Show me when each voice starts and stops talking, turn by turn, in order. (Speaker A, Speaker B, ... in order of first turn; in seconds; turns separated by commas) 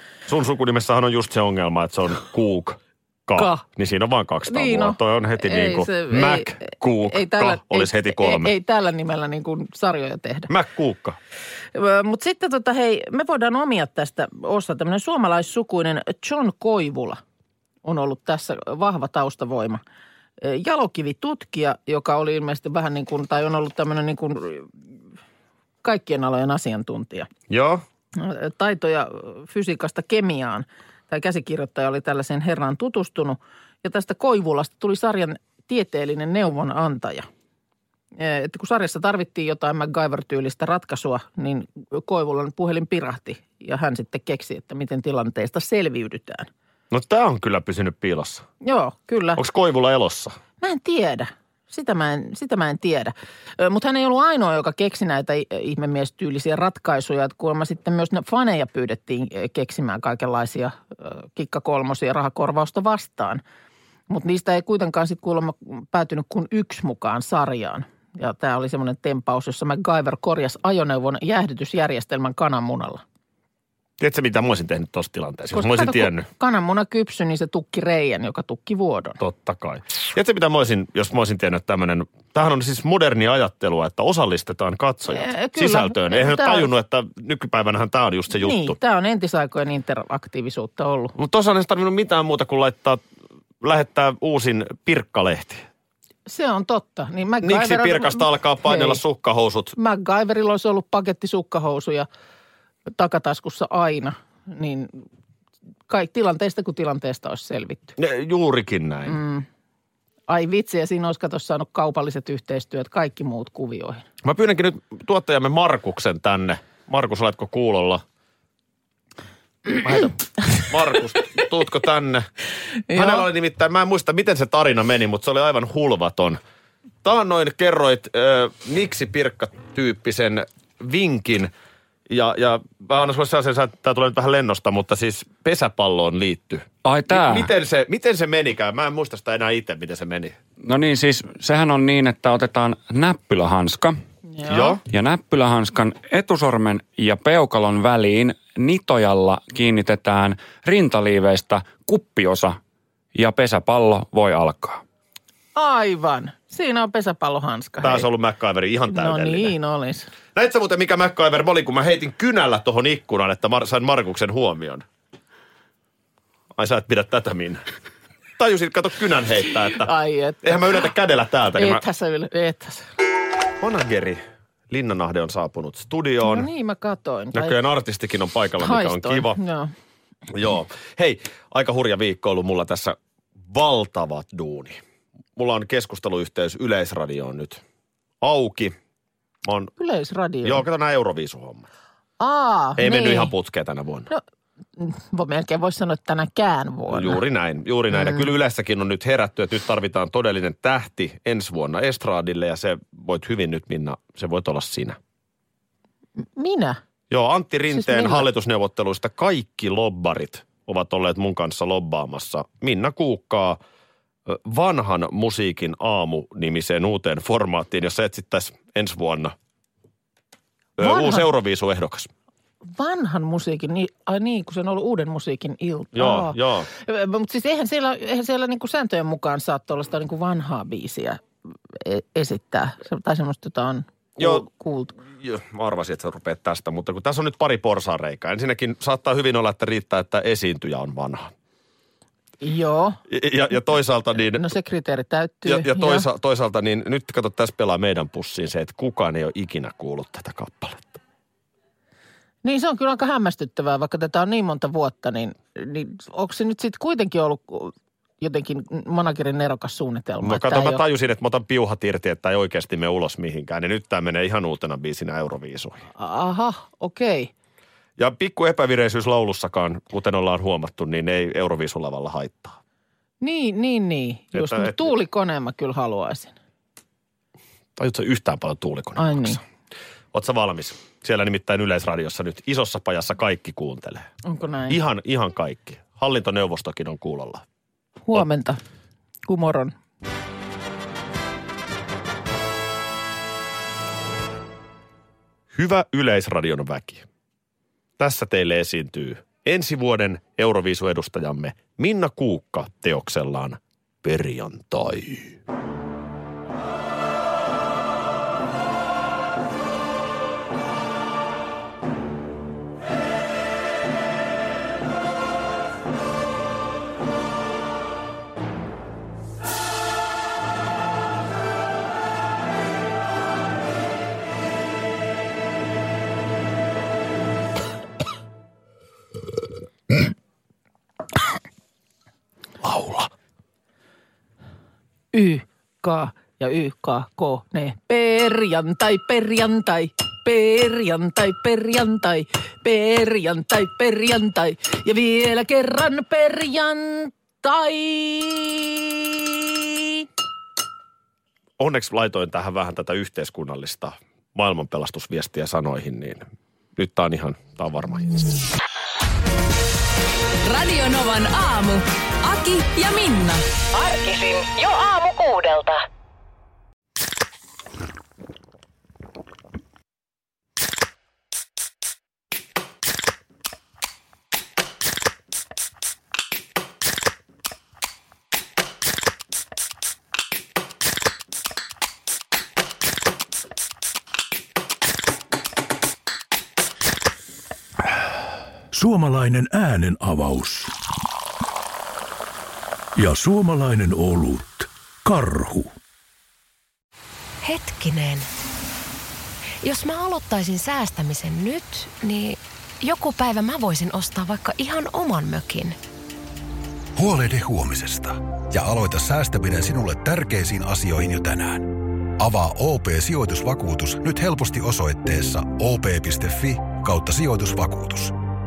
Speaker A: 0.3-8.5, Speaker B: 3.4-3.6, Speaker B: 4.5-10.5, Speaker A: 10.5-11.2, Speaker B: 11.7-17.2, Speaker B: 17.8-19.8, Speaker B: 20.4-24.7, Speaker B: 25.8-27.3, Speaker A: 27.5-27.8, Speaker B: 28.1-37.3, Speaker B: 38.2-46.5, Speaker A: 46.9-48.5, Speaker B: 48.6-49.4, Speaker A: 49.4-50.4, Speaker B: 50.6-63.4, Speaker B: 64.1-73.0, Speaker A: 74.0-76.3, Speaker B: 75.5-79.2, Speaker A: 79.2-88.8, Speaker B: 85.1-86.7, Speaker B: 88.3-91.1, Speaker A: 91.2-93.0, Speaker A: 93.6-95.7, Speaker B: 96.3-99.0, Speaker A: 97.4-99.8, Speaker B: 99.8-102.1, Speaker B: 102.9-105.0, Speaker B: 105.9-108.0, Speaker A: 108.0-109.2, Speaker B: 109.1-109.5, Speaker B: 110.3-114.0, Speaker A: 114.2-118.0, Speaker A: 119.8-122.3, Speaker B: 122.9-123.3, Speaker A: 122.9-126.4, Speaker A: 127.0-131.5, Speaker A: 132.1-140.4, Speaker C: 136.8-137.5, Speaker C: 140.6-144.0, Speaker B: 144.3-144.8, Speaker A: 144.5-144.8, Speaker C: 144.8-152.6, Speaker C: 153.2-154.8, Speaker B: 155.6-158.1, Speaker A: 157.8-159.6, Speaker B: 158.9-160.1, Speaker A: 160.3-164.8, Speaker A: 166.6-167.6, Speaker A: 168.4-171.8, Speaker B: 169.7-170.8, Speaker B: 171.6-172.9, Speaker A: 173.6-176.5, Speaker B: 176.2-177.6, Speaker A: 177.3-179.4, Speaker B: 178.6-179.7, Speaker A: 180.3-184.8, Speaker A: 185.4-187.6, Speaker A: 188.2-188.7, Speaker A: 189.4-189.7, Speaker B: 189.8-190.6, Speaker A: 190.4-191.7, Speaker B: 192.2-193.3, Speaker A: 192.8-194.1, Speaker B: 194.8-197.2, Speaker A: 196.9-205.0, Speaker B: 197.9-198.2, Speaker B: 206.4-206.8, Speaker A: 207.1-213.6, Speaker B: 207.7-208.3, Speaker A: 214.3-219.3, Speaker A: 220.8-222.1, Speaker B: 220.8-221.3, Speaker B: 222.7-234.9, Speaker A: 225.9-226.7, Speaker A: 234.2-234.4, Speaker A: 235.1-241.3, Speaker B: 242.4-243.0, Speaker A: 243.1-244.4, Speaker B: 244.3-246.1, Speaker A: 245.5-251.0, Speaker B: 252.4-260.8, Speaker A: 260.2-265.8, Speaker B: 266.0-267.3, Speaker A: 268.0-272.6, Speaker B: 273.2-276.4, Speaker A: 274.3-274.9, Speaker A: 277.8-279.4, Speaker B: 279.0-279.4, Speaker A: 280.1-284.1, Speaker B: 284.2-284.8, Speaker A: 284.7-287.4, Speaker B: 288.1-288.6, Speaker B: 289.3-289.7, Speaker A: 295.5-297.1, Speaker A: 298.0-305.4, Speaker A: 332.6-333.1, Speaker B: 335.1-350.1, Speaker A: 351.6-358.2, Speaker D: 360.4-363.5, Speaker E: 388.7-390.7, Speaker E: 393.0-395.8, Speaker F: 397.4-398.3, Speaker F: 399.6-405.8, Speaker G: 406.9-418.2